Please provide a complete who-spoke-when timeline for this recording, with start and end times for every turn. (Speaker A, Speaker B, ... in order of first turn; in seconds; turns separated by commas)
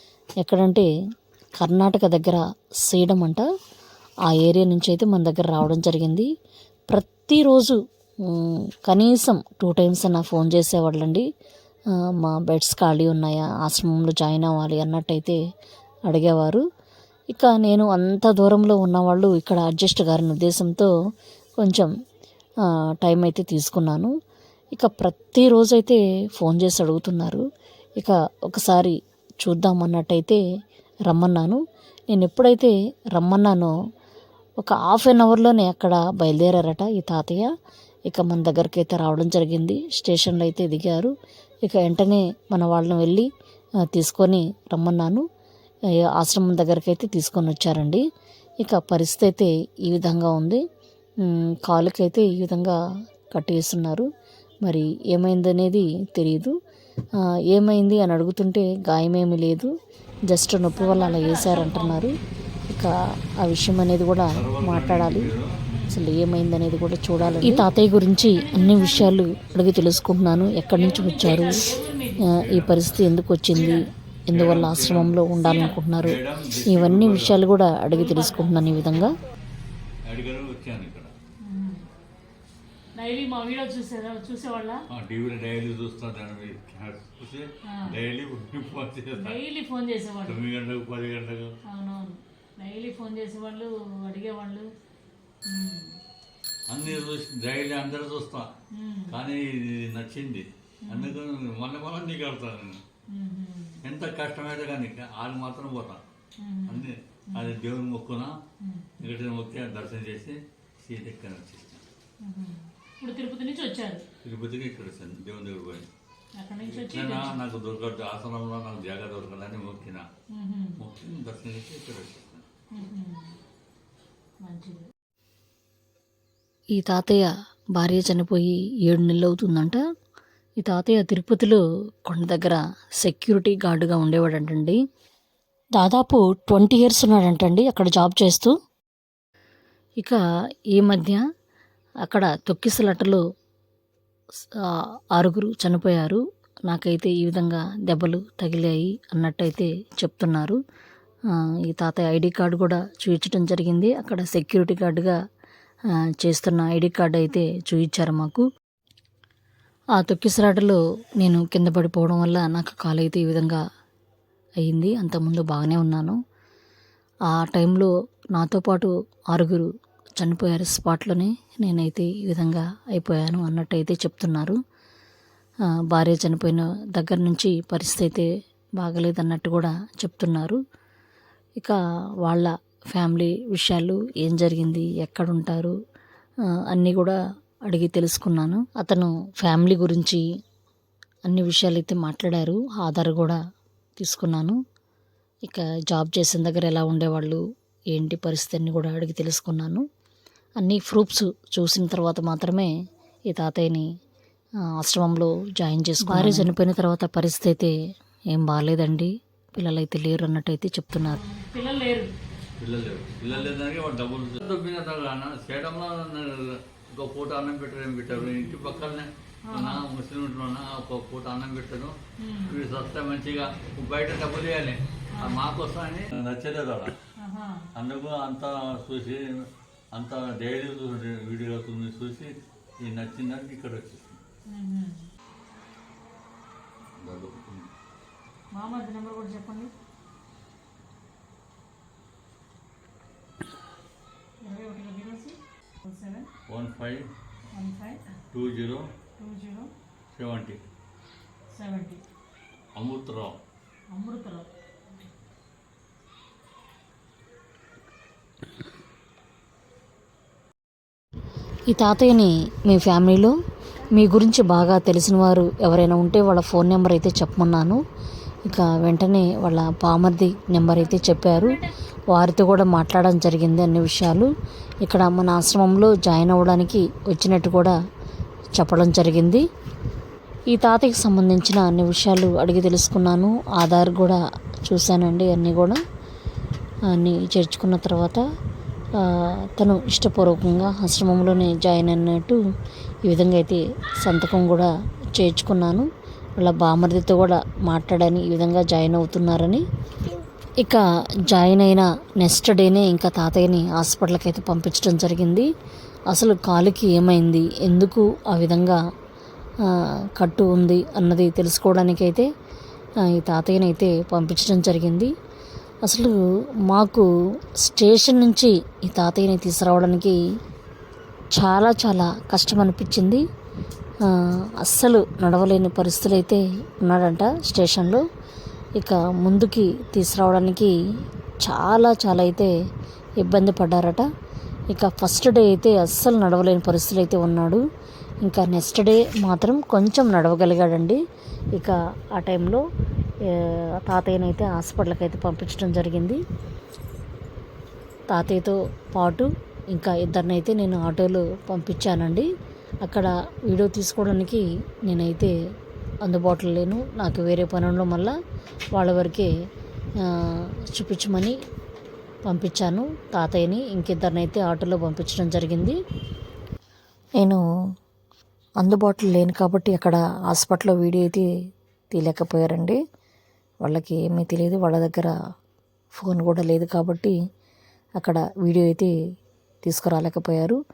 Speaker A: 0.4-0.9, Speaker A: 1.6-3.5, Speaker A: 4.3-6.3, Speaker A: 6.9-11.2, Speaker A: 12.2-15.4, Speaker A: 16.1-16.6, Speaker A: 17.3-20.9, Speaker A: 21.6-21.9, Speaker A: 23.0-24.1, Speaker A: 24.7-27.4, Speaker A: 28.0-30.4, Speaker A: 31.1-33.7, Speaker A: 34.6-37.5, Speaker A: 38.1-41.1, Speaker A: 41.6-43.3, Speaker A: 43.9-45.2, Speaker A: 46.1-48.0, Speaker A: 48.6-50.6, Speaker A: 51.2-52.8, Speaker A: 53.3-54.1, Speaker A: 54.6-56.5, Speaker A: 57.5-59.7, Speaker A: 60.3-62.1, Speaker B: 60.7-62.0, Speaker A: 62.7-65.3, Speaker C: 64.3-65.5, Speaker B: 65.7-66.0, Speaker A: 65.9-79.2, Speaker B: 68.3-69.1, Speaker B: 70.7-72.2, Speaker C: 72.3-73.0, Speaker B: 73.5-73.8, Speaker C: 74.3-75.2, Speaker B: 75.4-75.8, Speaker C: 76.0-77.4, Speaker B: 77.9-79.1, Speaker C: 80.1-81.1, Speaker B: 81.4-81.8, Speaker B: 82.9-84.8, Speaker C: 84.9-89.4, Speaker B: 87.7-88.0, Speaker B: 89.2-90.4, Speaker C: 90.2-91.5, Speaker B: 91.7-94.7, Speaker B: 95.4-96.0, Speaker C: 96.7-98.5, Speaker B: 98.7-99.2, Speaker C: 99.1-102.8, Speaker B: 100.9-101.2, Speaker B: 103.1-103.8, Speaker C: 103.8-106.0, Speaker B: 106.4-107.5, Speaker C: 106.7-108.3, Speaker B: 108.6-109.0, Speaker C: 109.0-111.8, Speaker B: 112.2-114.0, Speaker C: 114.2-115.9, Speaker B: 116.4-117.4, Speaker C: 116.6-120.0, Speaker B: 120.3-120.8, Speaker C: 120.8-122.5, Speaker B: 122.7-123.4, Speaker B: 124.4-124.9, Speaker A: 126.8-129.8, Speaker A: 130.6-134.8, Speaker A: 135.8-138.6, Speaker A: 140.7-141.2, Speaker A: 142.0-143.2, Speaker A: 144.7-150.6, Speaker A: 151.7-155.2, Speaker A: 156.2-158.4, Speaker A: 159.9-163.6, Speaker A: 164.6-166.2, Speaker A: 167.3-174.6, Speaker A: 175.9-178.3, Speaker A: 178.8-180.6, Speaker A: 181.6-185.8, Speaker A: 186.7-187.2, Speaker A: 187.7-190.2, Speaker A: 191.3-193.4, Speaker A: 194.0-194.6, Speaker A: 195.4-197.4, Speaker A: 197.9-199.8, Speaker A: 200.6-202.7, Speaker A: 203.3-203.9, Speaker A: 204.8-207.7, Speaker A: 208.3-211.2, Speaker B: 211.0-212.1, Speaker C: 212.6-226.9, Speaker B: 219.5-219.8, Speaker B: 222.2-222.6, Speaker B: 225.1-225.4, Speaker B: 227.2-227.7, Speaker C: 227.8-234.2, Speaker B: 234.5-235.1, Speaker C: 237.0-237.7, Speaker B: 238.5-239.7, Speaker B: 244.4-246.3, Speaker C: 246.5-247.1, Speaker B: 247.5-248.0, Speaker C: 248.3-248.8, Speaker B: 249.2-249.7, Speaker C: 250.1-250.6, Speaker B: 251.5-252.0, Speaker C: 252.7-253.4, Speaker B: 253.9-254.5, Speaker A: 261.7-263.3, Speaker A: 263.9-267.8, Speaker A: 268.4-274.3, Speaker A: 274.8-277.8, Speaker A: 278.5-279.4, Speaker A: 280.5-285.8, Speaker A: 286.9-288.2, Speaker A: 289.0-292.4, Speaker A: 293.0-295.9, Speaker A: 296.4-299.6, Speaker A: 300.6-305.4, Speaker A: 306.1-308.8, Speaker A: 309.7-312.3, Speaker A: 313.1-315.1, Speaker A: 315.8-317.1, Speaker A: 317.6-320.1, Speaker A: 321.3-323.2, Speaker A: 324.1-328.0, Speaker A: 328.8-330.7, Speaker A: 331.4-332.5, Speaker A: 333.2-334.1, Speaker A: 334.7-337.6, Speaker A: 338.2-341.0, Speaker A: 341.5-342.6, Speaker A: 343.3-346.2, Speaker A: 348.1-352.3, Speaker A: 352.8-355.3, Speaker A: 356.0-358.1, Speaker A: 358.7-359.3, Speaker A: 360.1-361.3, Speaker A: 362.2-365.8, Speaker A: 368.6-371.2, Speaker A: 371.9-372.8, Speaker A: 373.6-375.1, Speaker A: 375.9-377.1, Speaker A: 378.0-378.9, Speaker A: 379.6-380.6